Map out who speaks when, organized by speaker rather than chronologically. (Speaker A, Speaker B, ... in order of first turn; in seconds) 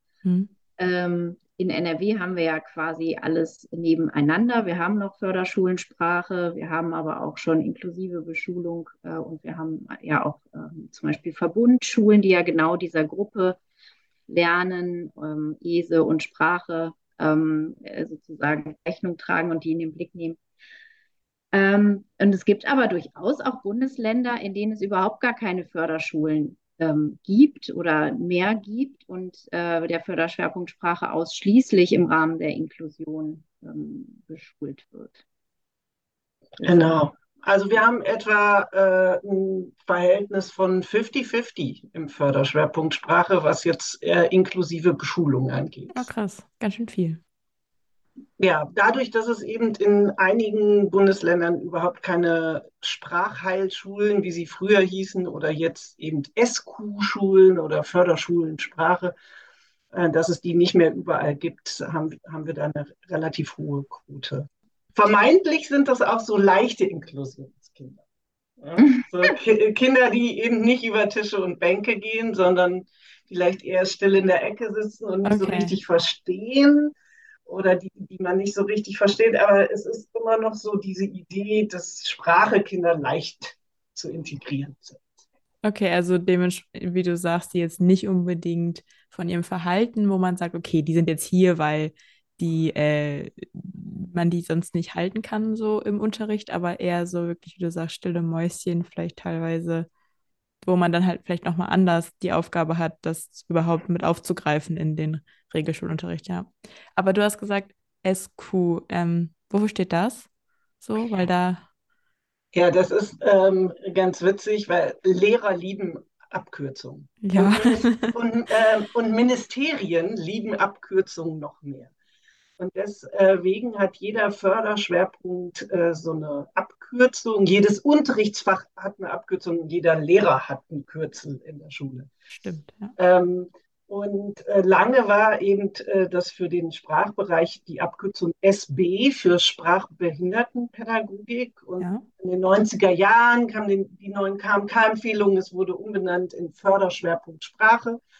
Speaker A: 0.2-0.5, 45.9-47.2, 75.2-75.8, 85.6-99.9, 100.6-110.3, 110.8-111.7, 117.2-118.2, 132.3-132.9
Speaker B: 0.8-13.6, 14.3-20.4, 21.5-35.2, 68.8-69.0
Speaker C: 36.6-46.1, 48.4-59.1, 59.9-68.0, 68.6-76.9, 77.5-85.1, 112.5-121.9, 122.6-132.1, 133.0-148.0